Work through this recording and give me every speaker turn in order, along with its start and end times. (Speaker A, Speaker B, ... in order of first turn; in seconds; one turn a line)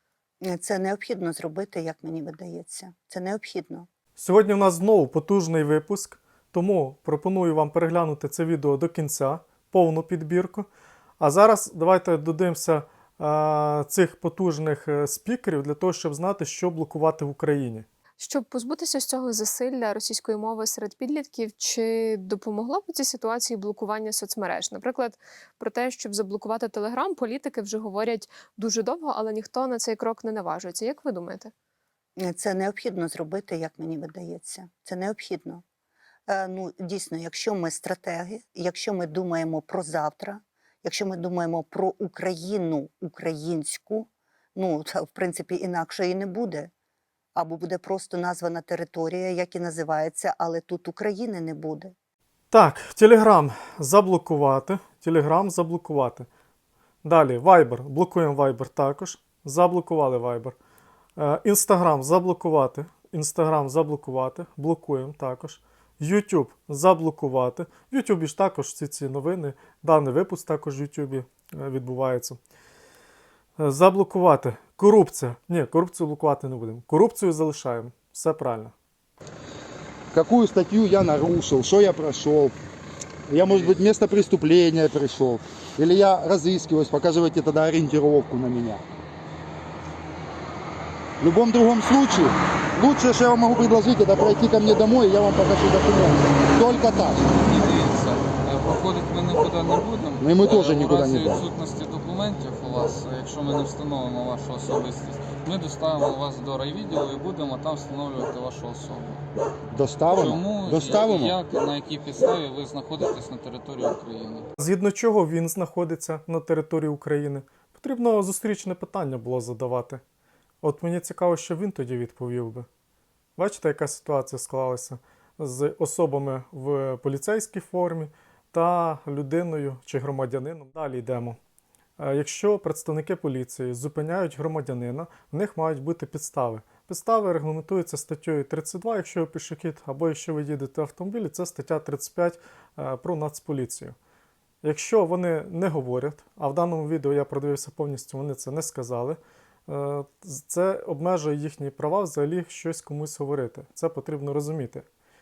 Speaker A: 0.4-3.9
Speaker B: 4.2-10.7
Speaker B: 11.2-17.9
Speaker C: 18.2-31.5
Speaker A: 32.2-35.6
Speaker A: 36.3-46.7
Speaker A: 47.3-51.9
Speaker B: 52.5-56.3
Speaker B: 57.0-60.5
Speaker B: 61.2-72.4
Speaker B: 73.6-78.7
Speaker D: 80.1-82.5
Speaker D: 83.3-88.8
Speaker D: 91.2-97.3
Speaker E: 97.3-109.2
Speaker D: 100.2-101.4
Speaker D: 109.7-111.3
Speaker E: 110.3-114.5
Speaker B: 114.6-120.0
Speaker B: 120.6-122.7
Speaker B: 123.4-131.4
Speaker B: 132.0-143.9
Speaker B: 144.6-154.8